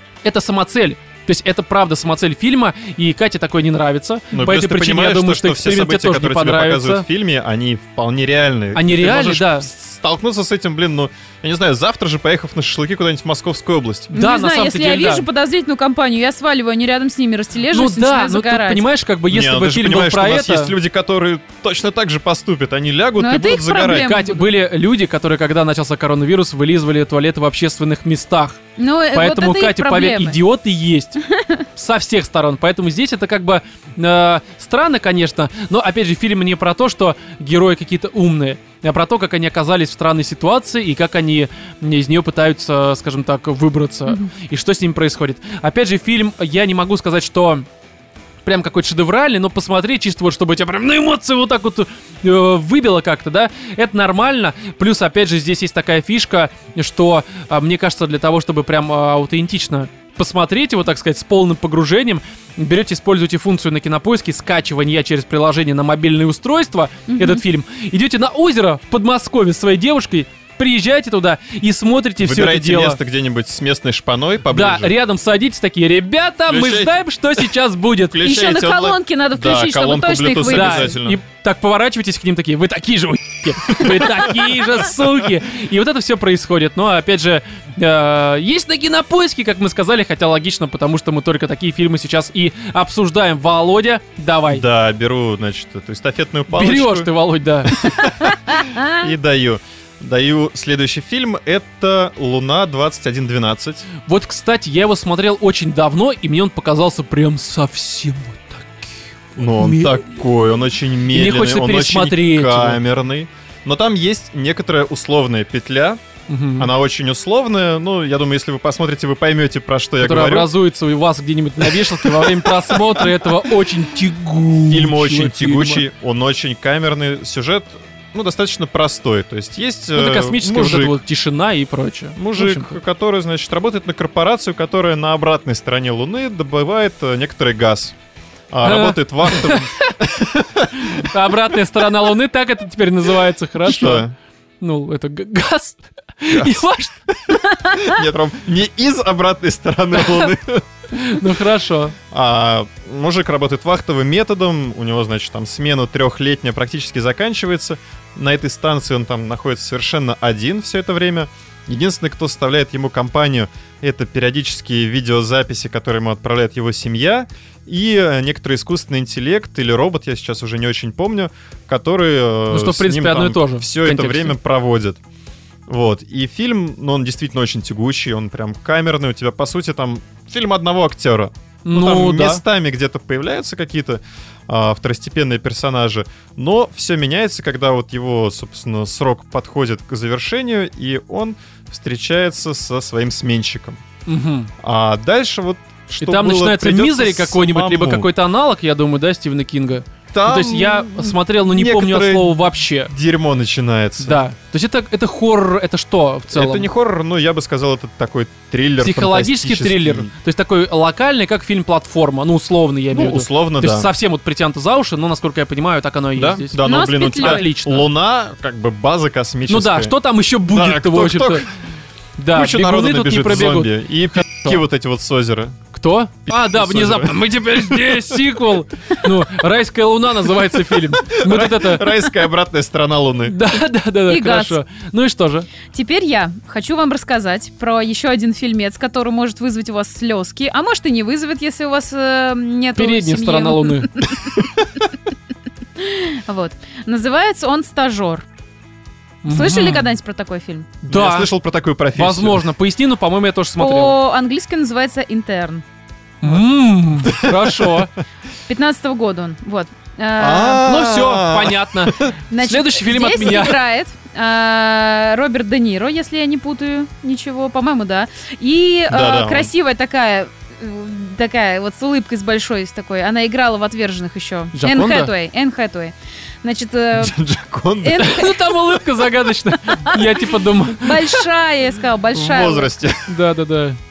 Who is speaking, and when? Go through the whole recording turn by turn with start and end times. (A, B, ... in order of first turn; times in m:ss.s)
0:00.2-0:07.0 A
0:04.3-0:14.1 B
0:08.8-0:09.7 A
0:14.1-0:15.3 A
0:14.1-0:18.8 C
0:17.7-0:20.7 A
0:19.3-0:24.2 B
0:23.2-0:24.4 C
0:23.9-0:28.6 A
0:28.8-0:30.4 C
0:29.1-0:31.2 A
0:31.3-0:31.6 C
0:31.8-0:47.7 A
0:48.4-1:13.0 A
1:07.1-1:07.4 C
1:12.2-1:15.0 B
1:14.5-1:18.2 A
1:16.5-1:17.0 B
1:18.1-1:21.2 B
1:18.2-1:21.0 C
1:20.4-1:34.6 A
1:23.8-1:24.2 B
1:34.5-1:37.1 B
1:36.5-1:38.3 A
1:37.6-1:43.9 B
1:44.1-1:50.0 A
1:49.4-1:56.0 B
1:51.1-1:52.8 A
1:56.3-1:56.7 A
1:56.6-2:00.5 B
2:00.0-2:05.8 A
2:01.6-2:03.3 B
2:04.7-2:11.0 B
2:10.0-2:12.8 A
2:12.2-2:18.0 B
2:18.5-2:21.1 B
2:18.6-2:24.0 A
2:23.6-2:24.1 B
2:24.6-2:27.8 A
2:26.3-2:26.6 B
2:27.3-2:31.2 B
2:30.9-2:32.0 A
2:32.1-2:55.0 B
2:52.5-2:54.4 A
2:55.7-3:13.8 B
3:01.6-3:02.4 A
3:14.1-3:14.5 A
3:14.6-3:18.1 B
3:16.0-3:22.9 A
3:20.1-3:24.2 B
3:24.0-3:26.7 A
3:26.3-3:30.1 B
3:28.8-3:37.9 A
3:32.9-3:33.9 B
3:36.2-3:40.0 B
3:36.6-3:37.5 C
3:39.5-3:41.4 A
3:40.5-3:41.5 B
3:42.2-3:44.6 A
3:42.3-3:45.6 B
3:45.7-3:52.0 A
3:46.3-3:48.3 B
3:51.0-3:53.4 B
3:53.3-3:55.5 A
3:54.1-3:54.6 C
3:55.7-4:04.5 C
4:02.8-4:03.9 A
4:05.8-4:08.2 C
4:09.2-4:09.9 A
4:09.3-4:10.7 C
4:10.8-4:11.3 A
4:10.9-4:12.5 B
4:12.0-4:14.0 A
4:13.6-4:15.6 C
4:16.2-4:17.9 A
4:17.0-4:17.9 B
4:18.5-4:20.9 C
4:20.2-4:22.2 B
4:20.6-4:23.6 A
4:22.3-4:37.2 C
4:28.9-4:29.5 B
4:34.5-4:35.1 A
4:37.0-4:38.1 B
4:37.8-4:38.8 C
4:38.0-4:41.2 A
4:39.8-4:40.0 C
4:40.7-4:42.7 C
4:42.1-4:43.1 B
4:43.1-4:43.8 A